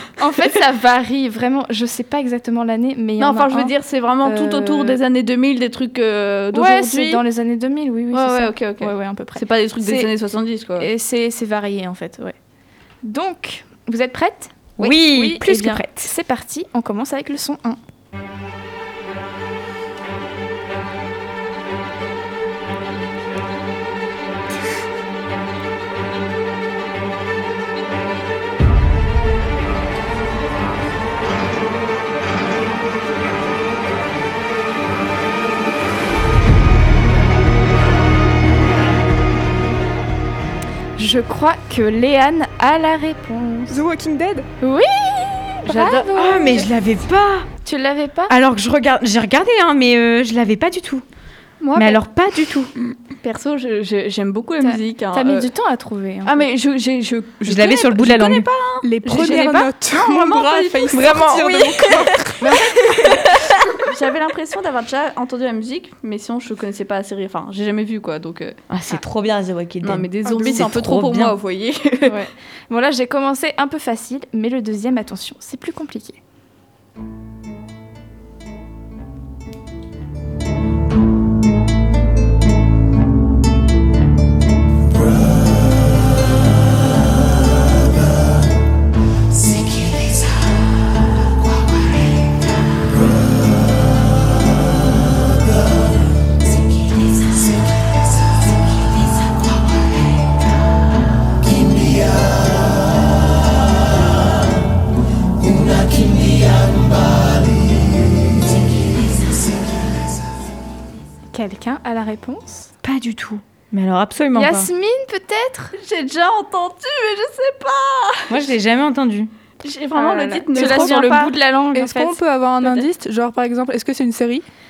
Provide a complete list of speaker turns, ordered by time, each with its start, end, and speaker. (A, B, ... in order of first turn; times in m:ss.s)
0:00.2-0:03.7 A
0:03.2-0:07.2 B
0:04.2-0:05.0 A
0:06.5-0:10.2 A
0:08.1-0:10.9 B
0:10.8-0:12.4 A
0:13.0-0:17.8 A
0:14.8-0:16.1 C
0:41.0-0:43.8 A
0:43.7-0:44.5 D
0:44.6-0:46.7 A
0:45.6-0:46.1 B
0:46.1-0:47.5 C
0:47.6-0:48.3 A
0:48.3-0:51.0 C
0:51.6-0:52.0 B
0:51.8-0:52.7 C
0:53.2-0:55.5 B
0:54.6-0:56.5 A
0:56.2-1:08.6 B
0:57.4-0:58.5 C
0:58.8-1:02.3 D
0:59.1-0:59.7 A
1:00.9-1:02.1 C
1:08.7-1:11.4 C
1:09.8-1:12.2 B
1:10.2-1:10.7 D
1:12.1-1:16.2 A
1:51.3-1:52.7 A
1:52.8-1:54.7 C
1:54.3-1:55.7 A
1:55.7-1:58.4 B
1:58.3-1:59.3 C
1:59.6-2:01.3 B
1:59.9-2:02.8 A
2:01.7-2:04.4 D